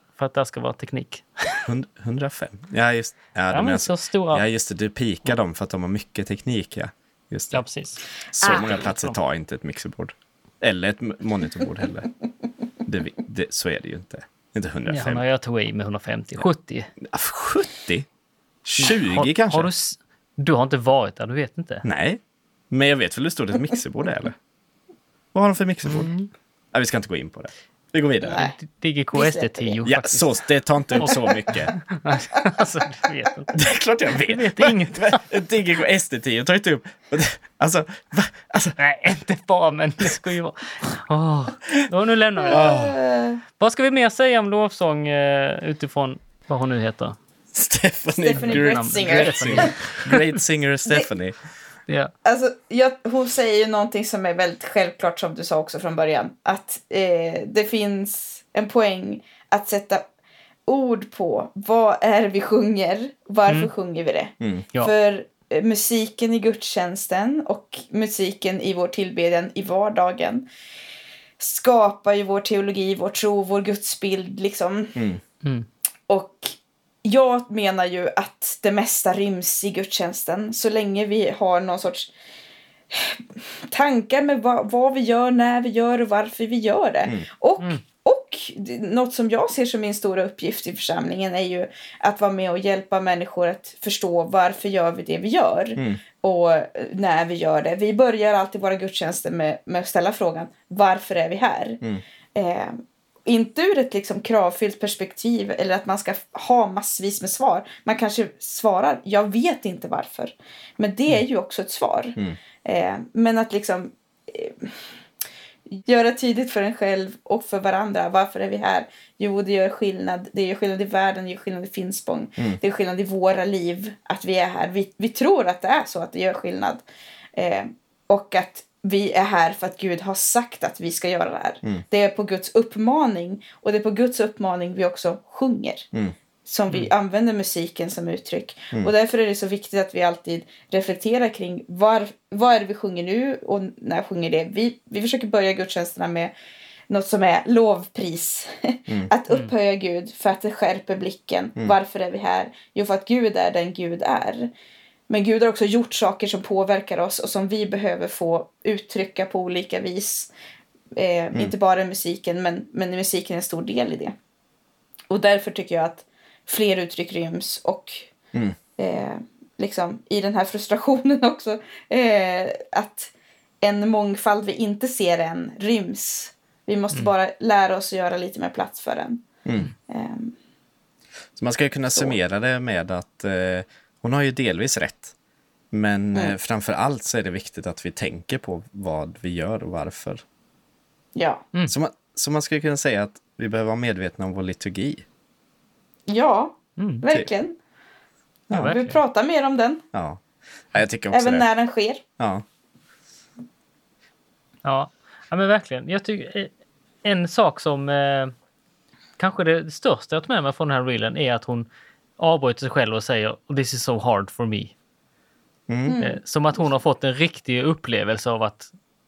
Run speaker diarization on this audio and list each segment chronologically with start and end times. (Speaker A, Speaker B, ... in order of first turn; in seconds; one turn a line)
Speaker A: 0.1-1.6
Speaker B: 1.6-7.7
Speaker A: 3.5-4.4
Speaker A: 7.5-9.2
Speaker B: 8.3-12.1
Speaker B: 12.8-15.2
Speaker A: 14.9-16.9
Speaker B: 17.0-18.1
Speaker B: 18.6-19.7
Speaker A: 18.8-21.8
Speaker B: 21.8-24.3
Speaker B: 25.3-26.1
Speaker A: 25.9-26.3
Speaker B: 26.7-28.4
Speaker A: 28.3-33.6
Speaker C: 29.1-29.8
Speaker B: 29.9-31.7
Speaker B: 33.5-38.8
Speaker A: 34.2-35.2
Speaker A: 38.8-42.8
Speaker C: 42.5-43.4
Speaker B: 42.5-43.0
Speaker A: 43.6-47.1
Speaker B: 47.5-51.4
Speaker C: 48.1-49.7
Speaker A: 48.4-50.3
Speaker C: 52.2-60.0
Speaker C: 60.7-70.5
Speaker B: 64.4-64.7
Speaker C: 71.4-75.0
Speaker B: 74.9-75.2
Speaker C: 76.1-82.1
Speaker C: 82.9-101.8
Speaker B: 95.8-96.0
Speaker C: 102.3-114.9
Speaker C: 115.7-126.8
Speaker C: 127.3-135.9
Speaker C: 136.4-146.3
Speaker C: 146.9-154.5
Speaker C: 155.1-160.3
Speaker C: 160.9-164.1
Speaker C: 165.1-168.1
Speaker C: 168.8-179.2
Speaker B: 179.4-179.7
Speaker C: 179.9-180.3
Speaker B: 181.3-185.1
Speaker C: 181.9-182.2
Speaker B: 185.7-190.2
Speaker C: 191.1-191.4
Speaker B: 191.7-195.0
Speaker C: 196.1-197.6
Speaker A: 196.8-197.0
Speaker B: 198.5-198.7
Speaker A: 198.6-199.0
Speaker C: 198.6-199.8
Speaker B: 199.9-200.2
Speaker B: 200.7-201.4
Speaker C: 201.1-202.0
Speaker B: 202.2-202.4
Speaker A: 204.6-206.5
Speaker A: 207.0-208.3
Speaker A: 209.2-211.7
Speaker A: 212.2-214.7
Speaker B: 215.7-216.0
Speaker C: 215.8-216.2
Speaker A: 216.0-218.7